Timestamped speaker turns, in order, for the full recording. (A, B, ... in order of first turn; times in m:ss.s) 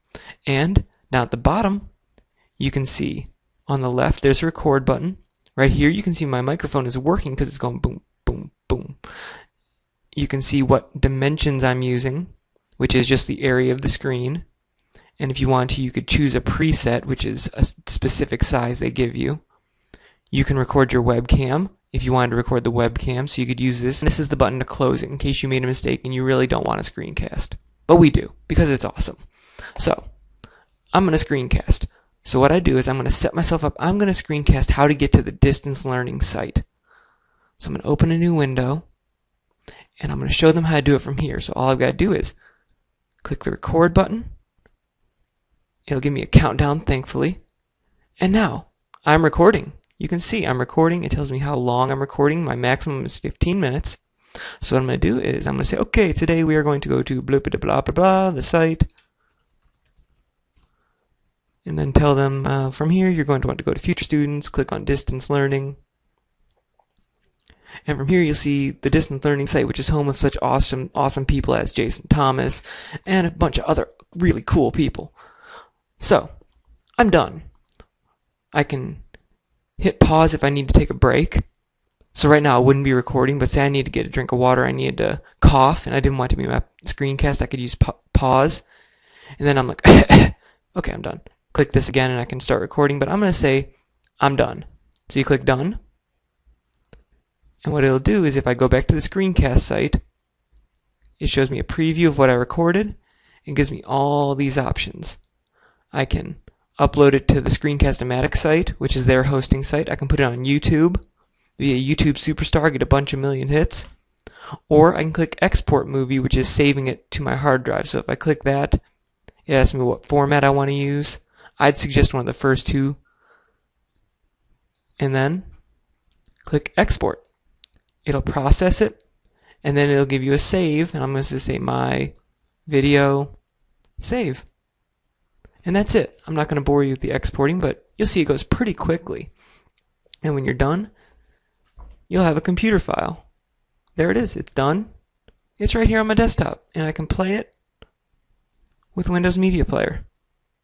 0:00.4-0:01.9 A
0:02.6-0:09.4 A
0:10.1-0:14.5 A
0:15.2-0:19.4 A
0:20.3-0:30.1 A
0:30.9-0:36.7 A
0:37.6-0:38.9 A
0:40.0-0:42.4 A
0:43.2-0:44.4 A
0:45.9-0:47.4 A
0:48.2-0:58.9 A
1:01.6-1:05.8 A
1:07.8-1:17.6 A
1:18.5-1:19.1 A
1:19.8-1:21.5 A
1:22.1-1:28.7 A
1:29.4-1:35.8 A
1:37.6-1:40.0 A
1:41.2-1:45.2 A
1:45.9-1:53.9 A
1:54.7-1:58.8 A
1:59.4-2:03.0 A
2:05.0-2:05.6 A
2:06.4-2:07.3 A
2:08.0-2:09.0 A
2:09.6-2:13.4 A
2:14.0-2:14.5 A
2:15.6-2:19.4 A
2:20.2-2:20.9 A
2:22.1-2:23.3 A
2:23.9-2:24.9 A
2:25.6-2:27.5 A
2:28.9-2:30.1 A